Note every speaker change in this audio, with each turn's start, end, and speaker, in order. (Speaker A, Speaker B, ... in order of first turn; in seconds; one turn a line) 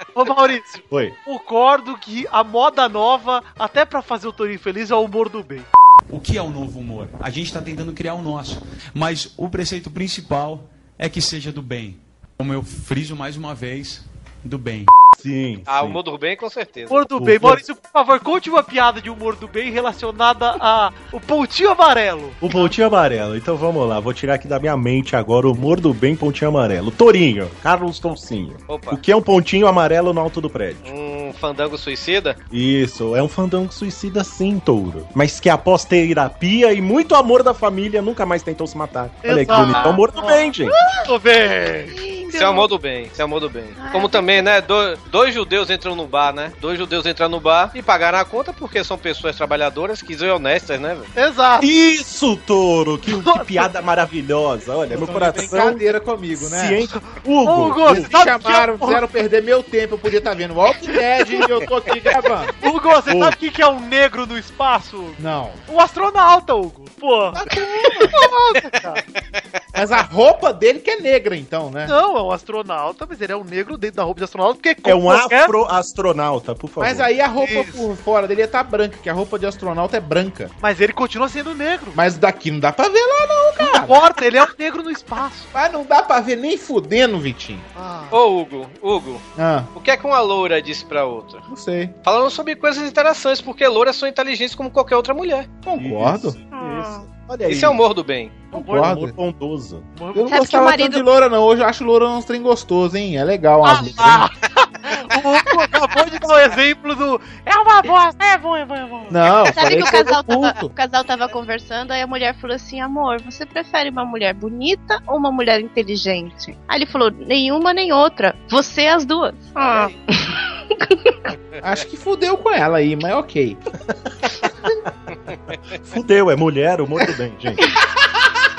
Speaker A: 0.1-5.7
Speaker B: 0.9-1.2
Speaker C: 6.1-14.9
Speaker B: 15.2-16.0
Speaker D: 15.7-17.1
Speaker A: 16.9-22.7
Speaker B: 17.2-17.6
Speaker B: 22.4-30.9
Speaker D: 28.7-29.0
Speaker D: 30.8-32.4
Speaker B: 32.5-40.8
Speaker A: 39.2-42.0
Speaker E: 41.9-42.7
Speaker D: 42.3-51.1
Speaker E: 43.8-44.6
Speaker A: 51.2-51.7
Speaker B: 51.6-55.8
Speaker A: 53.1-53.7
Speaker F: 54.9-56.8
Speaker B: 56.4-58.1
Speaker A: 56.9-59.0
Speaker F: 57.9-62.5
Speaker A: 60.9-61.5
Speaker A: 62.6-69.0
Speaker B: 63.1-63.4
Speaker F: 65.2-65.6
Speaker F: 67.4-68.2
Speaker F: 69.8-71.9
Speaker A: 71.9-75.5
Speaker B: 74.8-77.1
Speaker F: 76.8-80.5
Speaker A: 77.4-77.9
Speaker A: 80.6-82.0
Speaker F: 81.9-84.1
Speaker A: 83.6-85.5
Speaker F: 85.5-87.7
Speaker A: 87.8-88.2
Speaker D: 88.1-91.4
Speaker F: 89.4-89.7
Speaker F: 91.5-91.9
Speaker D: 92.0-95.5
Speaker F: 95.7-96.4
Speaker B: 95.8-97.8
Speaker E: 96.5-97.1
Speaker D: 97.5-98.4
Speaker A: 98.5-98.9
Speaker F: 98.5-99.1
Speaker B: 98.6-99.9
Speaker A: 100.0-100.4
Speaker F: 100.1-104.3
Speaker E: 100.3-101.0
Speaker A: 103.6-109.5
Speaker F: 109.1-110.7
Speaker E: 109.5-121.2
Speaker F: 121.6-123.6
Speaker B: 125.9-127.7